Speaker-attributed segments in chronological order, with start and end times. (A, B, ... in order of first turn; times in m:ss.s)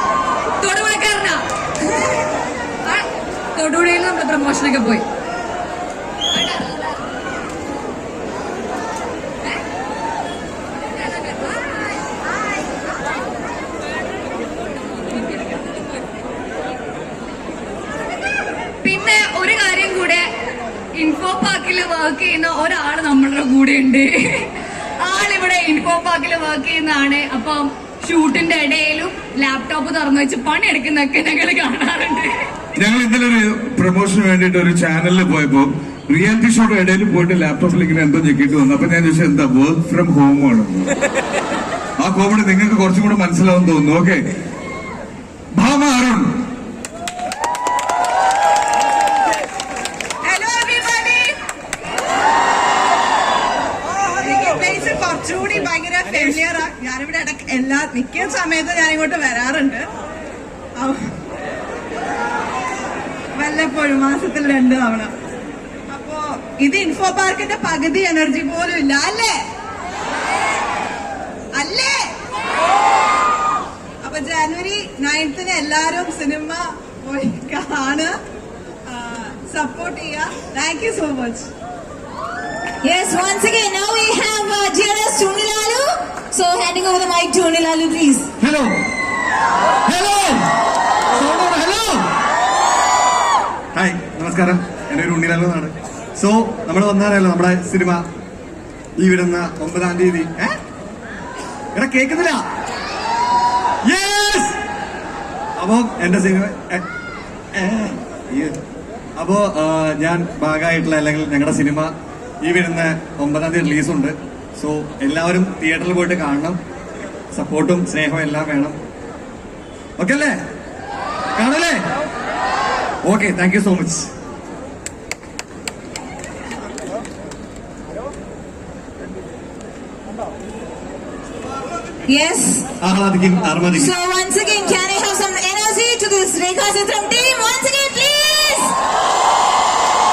0:00.6-0:01.4 A
0:02.8-0:05.0 A
0:06.3-0:06.8 A
0:18.8-0:20.3 A
0:21.0-0:32.3 A
0:32.8-0:40.9 B
0:42.0-0:44.2 B
0:45.5-0:46.3 B
0:50.2-0:51.4 C
0:54.2-0:59.9 C
1:03.4-1:05.1 C
1:05.9-1:09.4 C
1:11.6-1:12.1 C
1:14.0-1:18.1 C
1:18.9-1:21.5 C
1:22.8-1:28.3 D
1:28.4-1:28.7 E
1:29.9-1:30.4 E
1:31.1-1:32.0 E
1:33.7-1:38.0 E
1:39.0-1:40.6 E
1:41.8-1:42.4 E
1:43.8-1:44.6 E
1:45.6-1:46.8 E
1:47.5-1:48.6 E
1:49.2-1:56.6 E
1:57.3-1:58.8 E
2:00.0-2:00.4 E
2:01.4-2:01.8 E
2:03.0-2:04.1 E
2:12.1-2:12.7 D
2:12.8-2:13.9 E
2:13.7-2:18.8 D